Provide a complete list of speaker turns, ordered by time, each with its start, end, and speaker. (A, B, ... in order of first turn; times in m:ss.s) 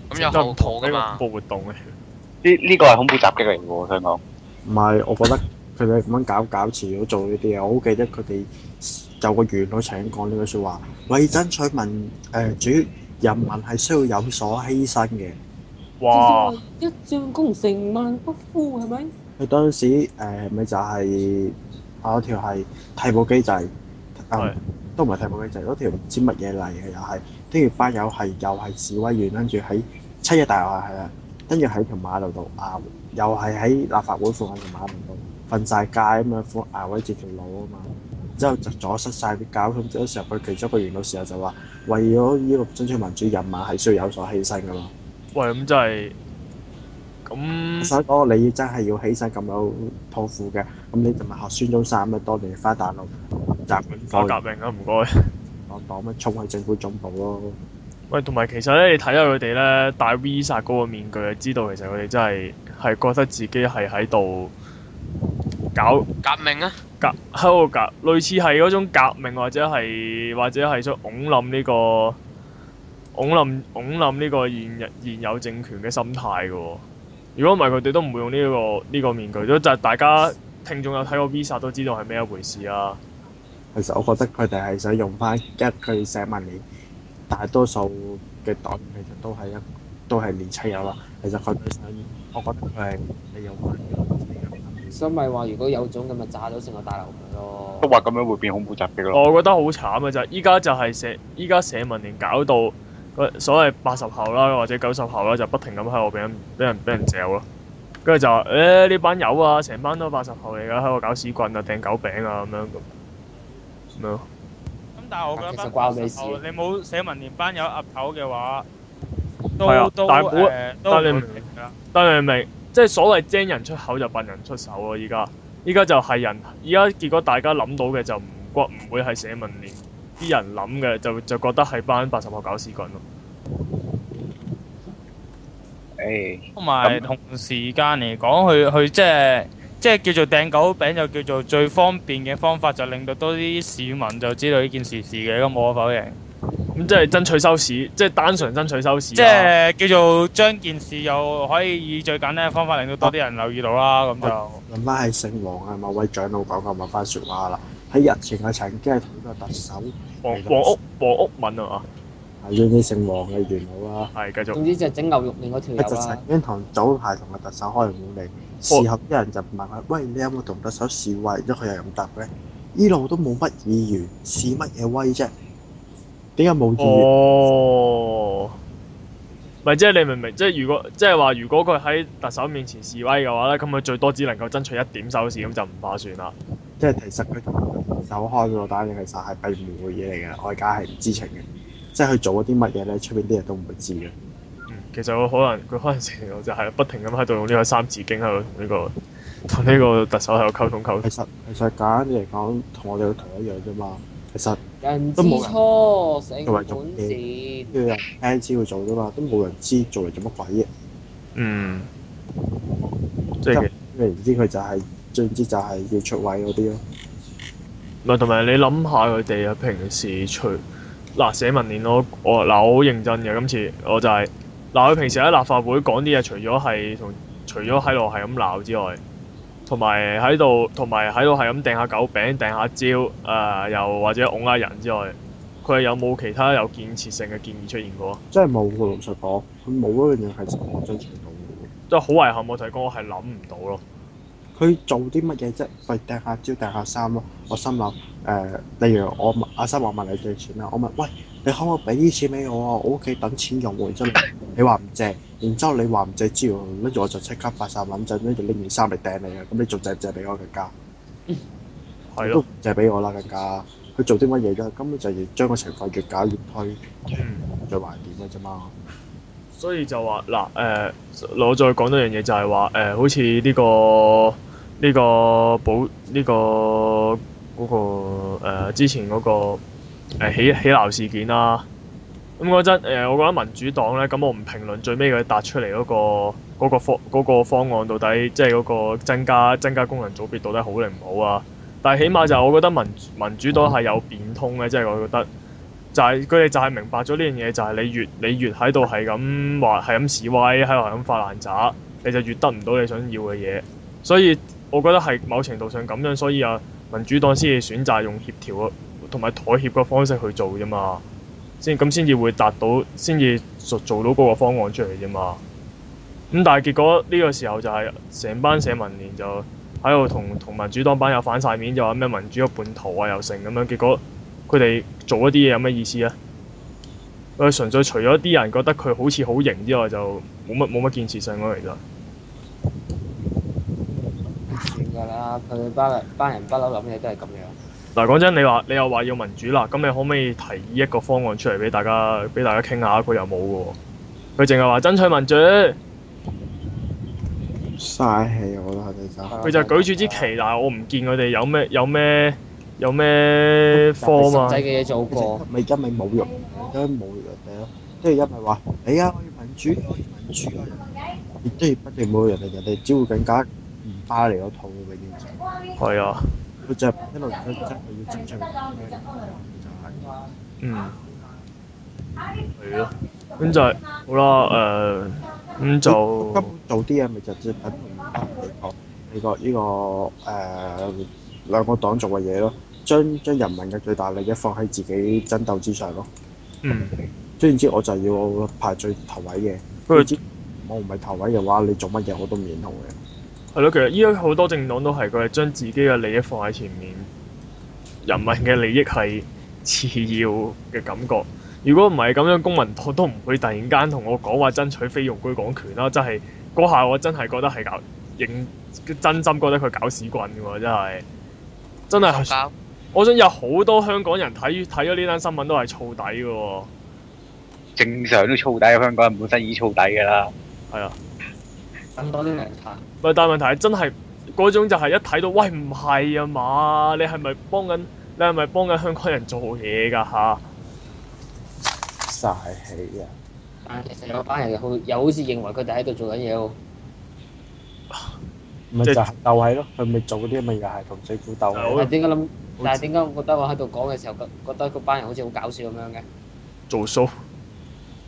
0:00.1-0:01.2 A
0:00.2-0:01.9 B
0:02.4-0:04.2 C
0:04.6-0:15.4 D
0:16.0-0:16.6 B
0:16.1-0:19.1 E
0:19.4-0:44.9 D
0:45.3-0:46.1 B
0:47.3-0:47.9 B
0:47.8-0:53.1 D
0:53.6-0:54.4 D
0:54.1-0:55.1 B
0:55.7-0:57.6 D
0:58.1-1:04.5 B
1:05.7-1:06.1 B
1:06.2-1:06.8 A
1:07.0-1:12.2 B
1:13.1-1:16.8 B
1:17.4-1:23.0 B
1:23.7-1:26.6 D
1:27.3-1:35.0 D
1:34.9-1:37.9 E
1:37.8-1:39.2 C
1:39.1-1:47.4 B
1:48.0-1:52.8 B
1:54.0-1:54.2 B
1:55.0-1:58.6 F
1:55.4-1:56.4 E
1:59.6-2:01.7 F
1:59.6-2:13.0 B
2:16.0-2:17.0 C
2:16.6-2:26.2 F
2:26.7-2:29.5 B
2:29.1-2:34.6 F
2:34.2-2:40.8 D
2:40.2-2:41.8 B
2:42.4-2:44.1 D
2:44.1-2:44.6 B
2:44.5-2:46.2 E
2:45.8-2:55.3 D
2:56.4-2:57.5 D
2:56.8-2:58.5 B
2:59.6-3:06.3 B
3:06.8-3:14.2 D
3:14.7-3:18.9 B
3:19.5-3:21.1 B
3:21.0-3:24.6 D
3:24.8-3:27.8 E
3:25.2-3:25.6 D
3:26.4-3:27.2 D
3:27.7-3:30.7 D
3:31.4-3:31.9 B
3:33.4-3:33.7 B
3:33.5-3:36.8 D
3:38.0-3:40.6 B
3:41.2-3:49.0 B
3:49.7-3:58.2 B
3:58.3-4:01.7 D
4:01.9-4:03.8 B
4:04.6-4:20.7 D
4:22.1-4:22.4 B
4:22.2-4:28.7 D
4:27.2-4:27.5 B
4:29.6-4:39.6 B
4:40.2-4:41.6 B
4:42.4-4:55.3 B
4:55.9-5:11.0 B
5:11.6-5:15.4 B
5:16.3-5:26.1 B
5:27.4-5:31.8 B
5:34.5-5:37.6 E
5:37.9-5:43.8 B
5:44.4-5:45.8 B
5:47.8-5:49.4 D
5:49.3-5:50.3 E
5:49.4-5:54.6 B
5:53.7-5:54.6 D
5:54.0-5:55.4 E
5:55.1-6:05.4 D
6:05.8-6:06.2 B
6:06.6-6:09.9 D
6:10.6-6:10.9 B
6:12.6-6:16.5 B
6:15.8-6:26.1 D
6:26.6-6:27.0 B
6:27.4-6:33.0 D
6:29.9-6:30.1 B
6:33.5-6:37.1 B
6:38.0-6:51.0 B
6:51.9-6:52.4 B
6:51.9-6:52.5 A
6:52.9-6:56.7 B
6:57.8-7:00.3 C
7:00.7-7:01.0 B
7:02.0-7:02.8 E
7:03.0-7:10.4 B
7:12.0-7:13.1 D
7:13.6-7:16.6 E
7:18.7-7:21.9 D
7:21.5-7:21.9 B
7:21.7-7:26.0 E
7:26.7-7:27.1 B